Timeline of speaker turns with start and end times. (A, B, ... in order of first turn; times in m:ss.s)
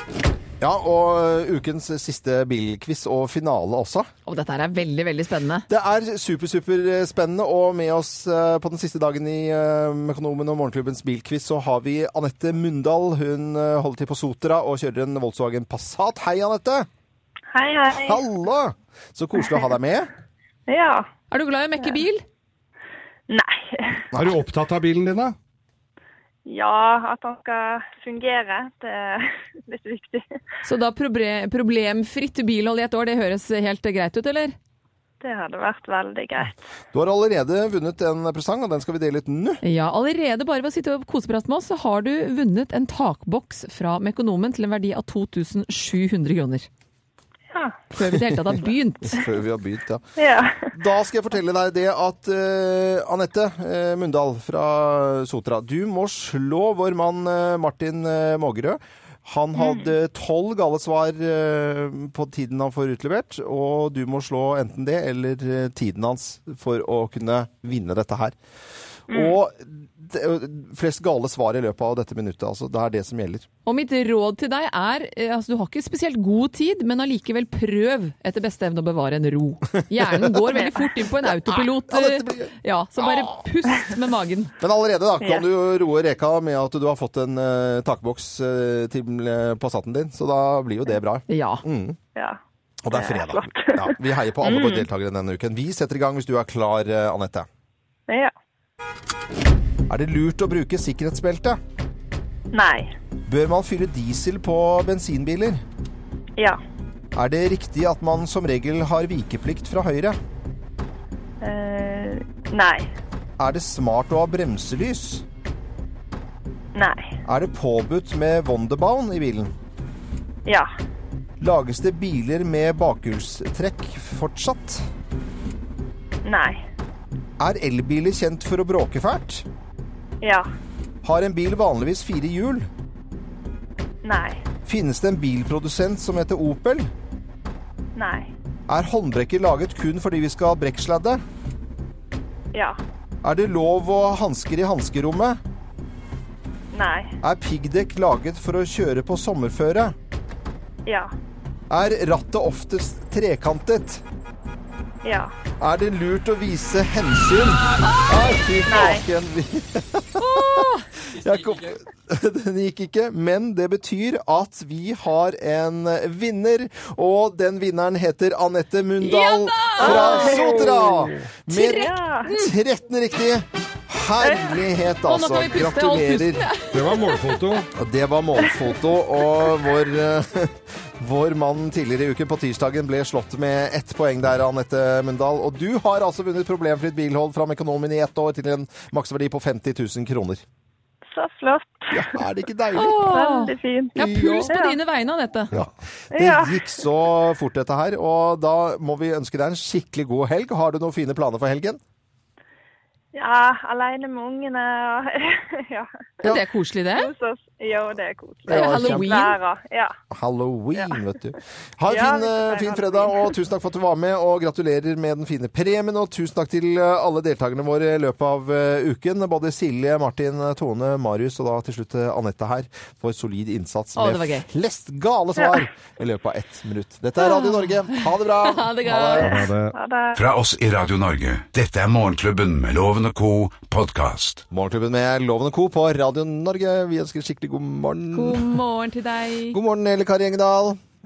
0:00.6-0:04.1 A
0:04.2-0:05.6 B
0:05.7-0:16.9 A
0:17.5-0:18.2 C
0:18.0-0:20.1 A
0:20.7-0:21.1 C
0:21.3-0:22.2 B
0:23.3-0:24.0 C
0:24.1-0:25.3 D
0:26.4-0:30.2 C
0:30.6-0:34.5 B
0:35.2-0:36.5 C
0:36.9-0:39.6 A
0:39.6-0:46.7 B
0:47.5-0:47.8 C
0:47.9-0:49.2 B
0:48.0-0:48.6 A
0:49.1-0:50.0 A
0:50.2-0:50.8 C
0:50.7-1:08.4 A
0:59.6-0:59.9 C
1:09.1-1:13.5 A
1:09.1-1:09.4 C
1:13.6-1:24.5 B
1:21.9-1:23.4 A
1:24.6-1:32.0 A
1:25.2-1:25.5 C
1:31.3-1:31.6 B
1:32.8-1:37.5 A
1:32.9-1:34.9 C
1:38.1-1:38.3 C
1:39.9-1:41.6 A
1:42.5-1:42.9 C
1:43.3-1:45.6 A
1:47.1-1:50.2 A
1:51.4-1:52.9 C
1:53.4-1:55.2 A
1:56.7-1:57.2 C
1:57.2-1:59.5 A
2:01.4-2:04.8 A
2:06.2-2:06.6 C
2:07.4-2:09.4 A
2:10.2-2:10.5 C
2:11.0-2:12.7 A
2:14.0-2:14.4 C
2:14.6-2:16.9 A
2:18.0-2:18.3 C
2:18.7-2:21.2 A
2:22.5-2:22.8 C
2:23.2-2:25.4 A
2:26.7-2:27.1 C
2:27.2-2:29.9 A
2:30.8-2:31.1 C
2:31.7-2:34.0 A
2:35.0-2:35.3 C
2:35.6-2:56.4 A
2:38.6-2:39.0 C
2:40.2-2:40.8 B
2:49.0-2:50.7 B
2:49.8-2:50.8 C
2:51.5-2:52.4 C
2:54.2-2:54.6 C
2:55.0-2:57.2 B
2:56.7-2:57.7 D
2:57.8-3:10.4 A
3:11.0-3:12.2 C
3:11.9-3:13.0 A
3:12.7-3:15.5 B
3:13.0-3:14.8 C
3:14.1-3:14.5 A
3:15.5-3:21.8 A
3:16.1-3:16.8 C
3:23.1-3:26.0 C
3:26.2-3:27.1 B
3:26.9-3:29.9 C
3:28.5-3:29.1 A
3:28.5-3:29.4 B
3:30.1-3:49.4 A
3:30.7-3:31.0 C
3:31.9-3:33.3 C
3:44.0-3:44.4 B
3:47.2-3:49.4 B
3:49.2-3:50.2 C
3:49.3-3:49.7 D
3:50.1-3:54.4 E
3:54.5-3:58.6 A
3:58.1-3:59.6 B
3:59.5-4:00.8 A